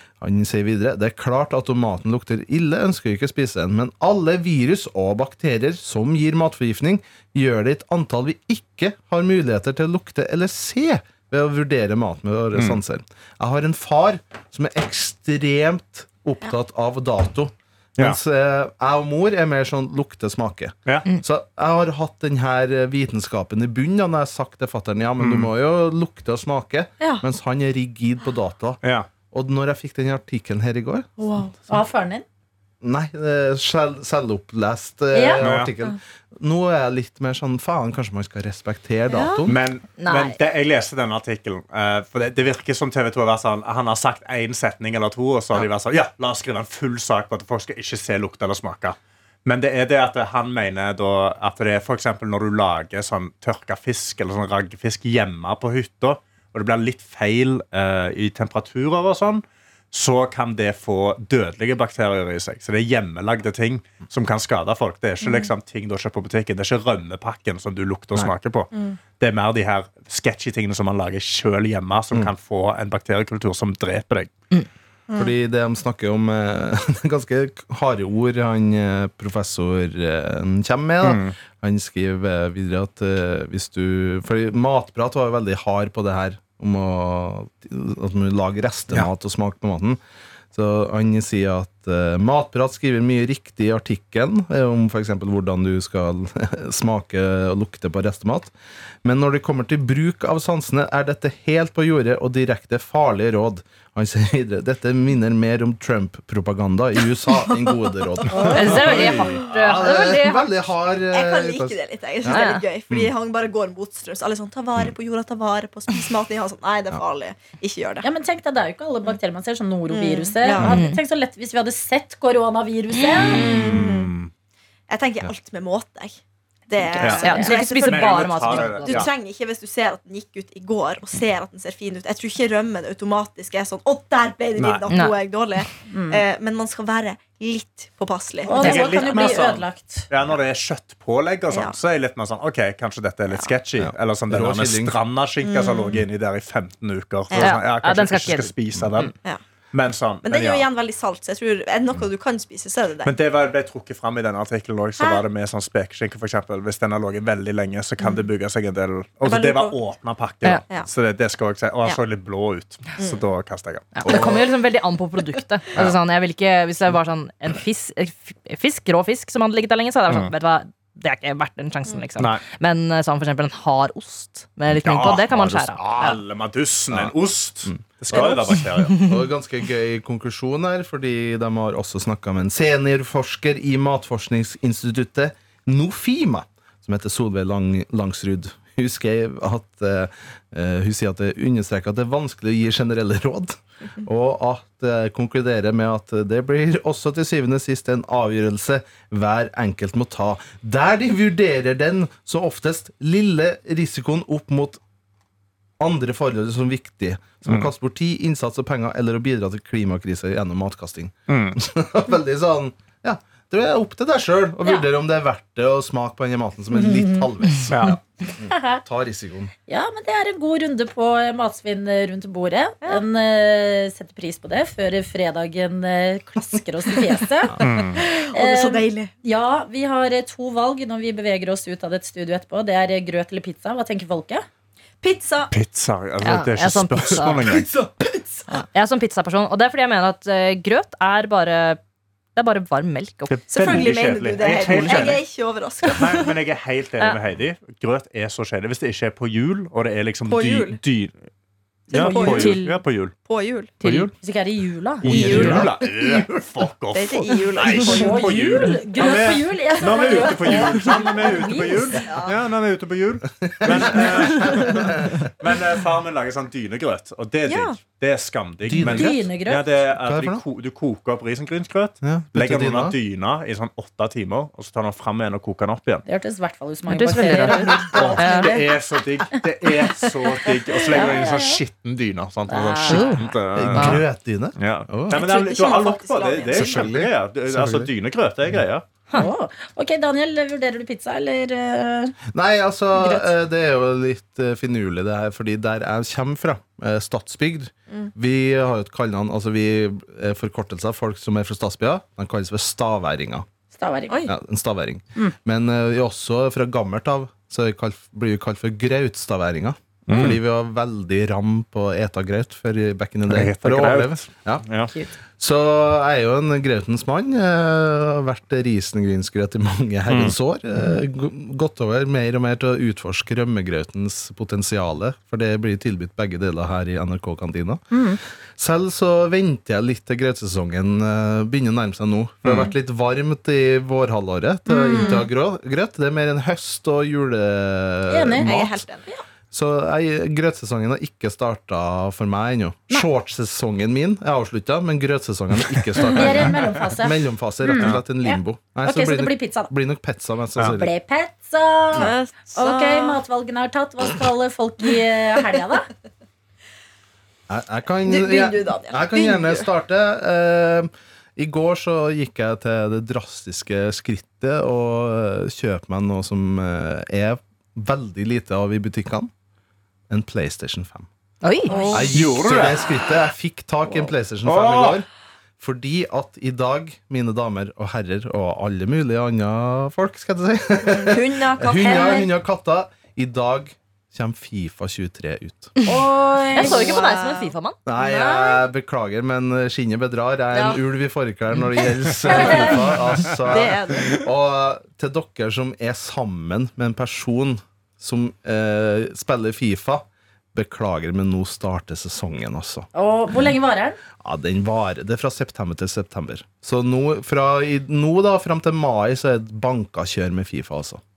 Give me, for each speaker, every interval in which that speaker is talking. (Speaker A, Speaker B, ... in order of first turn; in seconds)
Speaker A: 0.2-28.8, 29.3-31.1, 32.8-39.6, 75.2-90.0, 90.5-98.5, 99.0-113.1, 143.8-145.0, 164.1-164.4, 177.7-178.3, 178.9-204.8, 205.8-219.5, 237.3-238.5, 255.0-255.8, 263.6-265.3, 268.7-269.3, 270.0-270.4, 272.0-272.9, 283.5-285.2, 286.5-287.9, 292.3-303.5, 304.2-314.7, 315.4-328.0, 328.5-338.9, 339.5-350.9, 357.5-369.3, 370.1-371.1, 371.9-375.1, 375.6-385.7, 387.9-402.9, 404.2-411.0
Speaker B: 25.2-25.5, 28.8-29.1, 35.4-35.7, 39.5-74.5, 81.0-81.3, 123.2-124.3, 127.0-129.1, 134.6-134.9, 138.6-149.1, 149.7-150.7, 153.0-164.3, 172.2-172.4, 174.7-179.1, 211.3-211.6, 217.7-218.0, 227.6-228.0, 235.5-237.7, 243.3-245.2, 245.9-251.3, 251.9-253.2, 253.8-254.1, 255.0-276.1, 277.8-288.9, 310.1-310.4, 313.3-314.9, 320.1-320.4, 332.4-332.7, 372.1-372.9, 374.4-375.0
Speaker C: 31.2-31.5, 39.1-39.5, 65.2-65.5, 68.7-69.0, 107.5-108.8, 111.1-118.1, 119.9-120.8, 123.3-124.1, 124.9-139.4, 141.5-141.8, 145.4-146.1, 150.2-153.1, 158.0-158.3, 159.2-159.8, 178.1-178.4, 227.7-229.1, 235.0-235.5, 243.5-246.3, 250.3-250.8, 252.0-252.6, 253.2-253.7, 255.1-256.2, 256.9-258.3, 260.2-260.9, 267.5-267.8, 285.1-286.9, 334.8-335.3, 338.4-339.1, 352.0-353.2, 358.1-359.7, 371.7-372.1, 380.9-382.3, 386.6-388.6, 390.5-390.8, 392.2-394.3
Speaker D: 31.7-32.2, 35.1-35.5, 118.0-123.6, 127.2-127.6, 135.9-136.2, 138.4-140.1, 216.8-217.2, 218.5-218.8, 219.7-227.6, 228.3-234.5, 251.9-252.8, 253.8-255.6, 257.8-262.1, 268.8-269.6, 276.1-278.8, 280.9-281.6, 282.5-283.3, 289.1-292.2, 292.9-293.3, 303.7-304.2, 327.9-328.2, 334.9-335.2, 338.1-338.5, 346.0-349.7, 350.8-355.9, 385.9-387.1, 402.9-404.0
Speaker E: 40.0-40.4, 108.3-110.5, 112.3-112.6, 120.6-121.0, 127.0-129.1, 134.9-135.2, 138.6-139.0, 147.4-149.1, 163.9-176.1, 178.8-179.1, 236.2-237.5, 238.7-241.8, 242.4-243.8, 276.9-278.6, 282.9-284.0, 371.4-372.0, 386.6-387.8